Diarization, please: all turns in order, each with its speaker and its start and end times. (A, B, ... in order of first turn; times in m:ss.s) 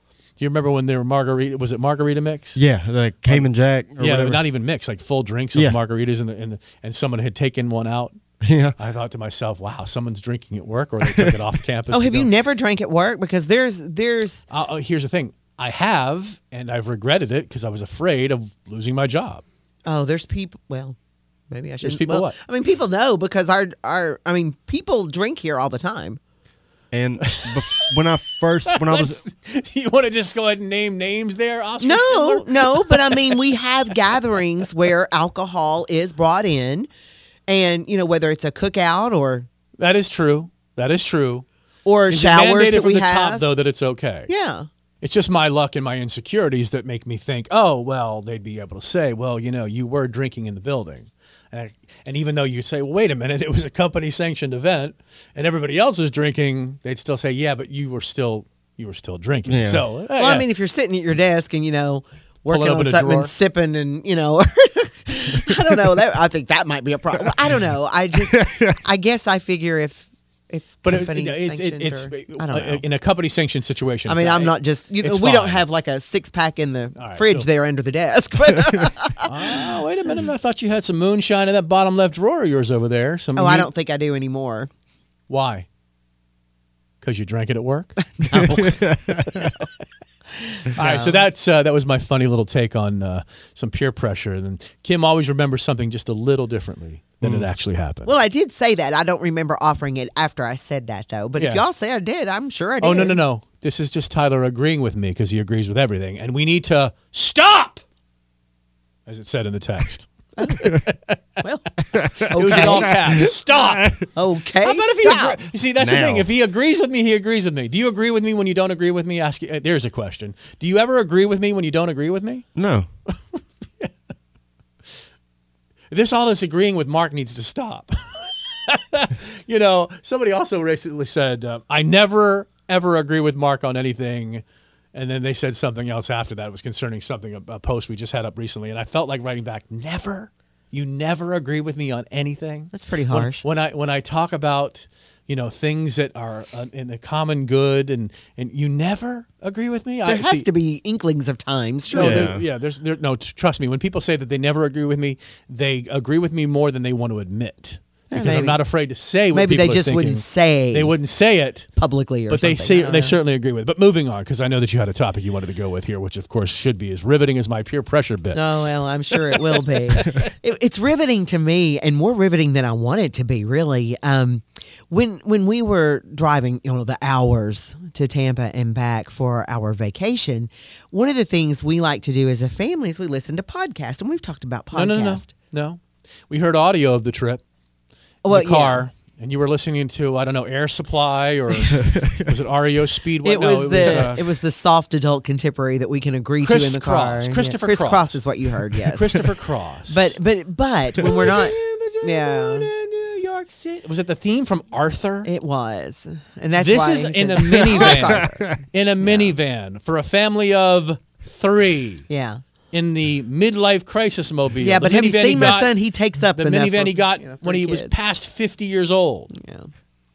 0:00.4-0:02.6 A
0:02.6-0:04.4 B
0:03.3-0:08.2 A
0:08.4-0:08.8 B
0:08.8-0:12.3 A
0:11.0-0:11.4 B
0:11.9-0:14.5 C
0:14.5-0:19.4 A
0:19.8-0:21.0 C
0:21.5-0:26.2 C
0:21.8-0:22.4 A
0:26.9-0:29.2 B
0:28.7-0:33.4 A
0:31.8-0:36.9 C
0:37.5-0:39.5 C
0:39.8-0:41.5 A
0:41.8-0:43.5 C
0:42.1-0:44.3 A
0:44.3-0:44.7 C
0:45.0-1:00.5 A
0:59.5-0:59.8 B
1:00.2-1:12.8 C
1:02.5-1:03.3 A
1:08.3-1:08.8 B
1:10.8-1:15.7 A
1:14.1-1:19.7 C
1:17.0-1:17.5 A
1:19.2-1:23.7 A
1:23.4-1:24.7 C
1:25.3-1:25.7 A
1:27.0-1:28.0 A
1:28.2-1:29.6 C
1:28.6-1:29.3 B
1:30.5-1:31.3 C
1:30.8-1:38.1 A
1:38.0-1:43.2 C
1:41.4-1:41.6 A
1:42.8-1:47.8 A
1:49.1-1:51.2 A
1:50.4-1:50.8 C
1:51.4-1:53.3 C
1:52.0-1:52.9 B
1:52.3-1:54.1 A
1:54.1-1:55.4 C
1:54.6-2:02.5 A
1:55.8-1:56.3 B
2:02.6-2:02.9 B
2:05.9-2:14.4 A
2:14.9-2:30.5 A
2:22.7-2:23.4 C
2:30.0-2:32.3 C
2:31.9-2:41.7 A
2:32.0-2:32.4 B
2:38.1-2:38.6 C
2:39.3-2:40.9 C
2:41.8-2:43.2 C
2:42.3-2:48.5 A
2:48.3-3:05.3 C
2:49.4-2:50.3 A
3:04.7-3:07.4 A
3:08.2-3:08.9 C
3:08.3-3:14.2 A
3:11.7-3:12.3 B
3:13.2-3:19.3 C
3:13.8-3:14.1 B
3:16.4-3:18.2 A
3:18.8-3:20.2 A
3:19.9-3:22.7 C
3:21.0-3:25.3 A
3:25.2-3:29.4 C
3:26.6-3:32.0 A
3:32.1-3:32.4 C
3:32.7-3:35.7 A
3:34.6-3:37.9 C
3:36.3-3:39.3 A
3:39.3-3:39.7 C